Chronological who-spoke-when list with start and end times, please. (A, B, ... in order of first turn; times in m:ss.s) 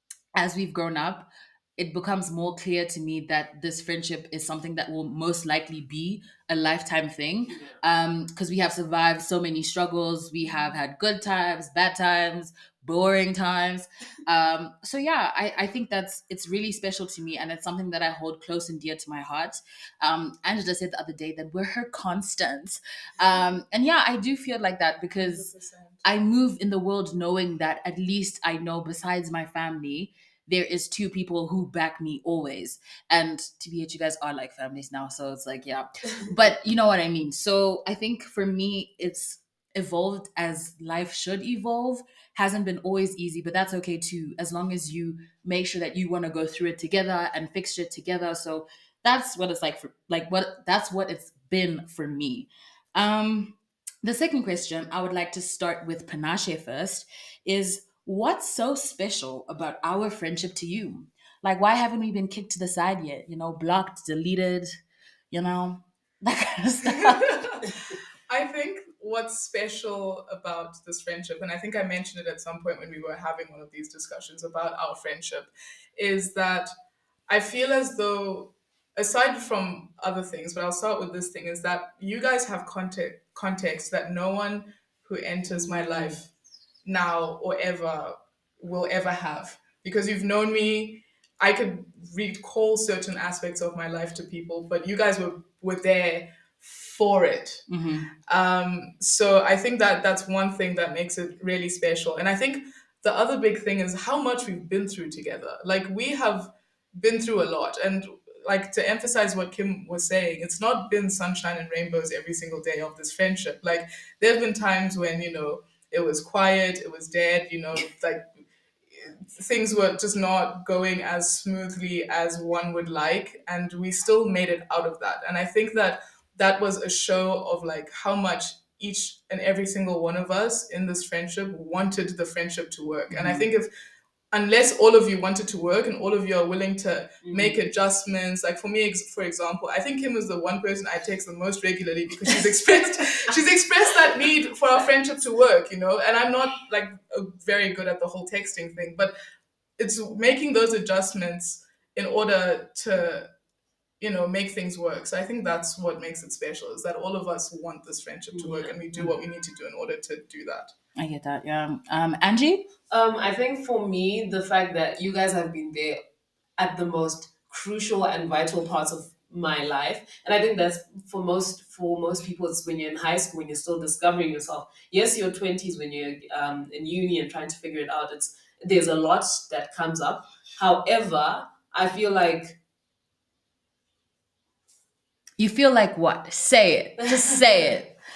0:00.4-0:25.5 A
0:07.5-0:07.8 B
0:25.2-0:26.0 C
0:26.0-1:04.7 A
1:05.3-1:07.4 A
1:07.0-1:07.7 C
1:08.3-1:16.7 C
1:17.3-1:26.3 C
1:25.5-1:26.2 B
1:26.8-1:37.7 C
1:37.7-1:38.1 A
1:38.3-1:58.3 C
1:58.9-2:13.7 C
2:13.1-2:13.5 B
2:14.3-2:29.1 C
2:17.2-2:17.6 B
2:29.8-2:33.3 C
2:34.0-2:40.7 C
2:38.3-2:39.1 B
2:41.0-2:42.7 A
2:42.9-2:46.0 B
2:46.6-3:02.6 B
3:05.4-3:07.9 A
3:07.1-3:07.8 B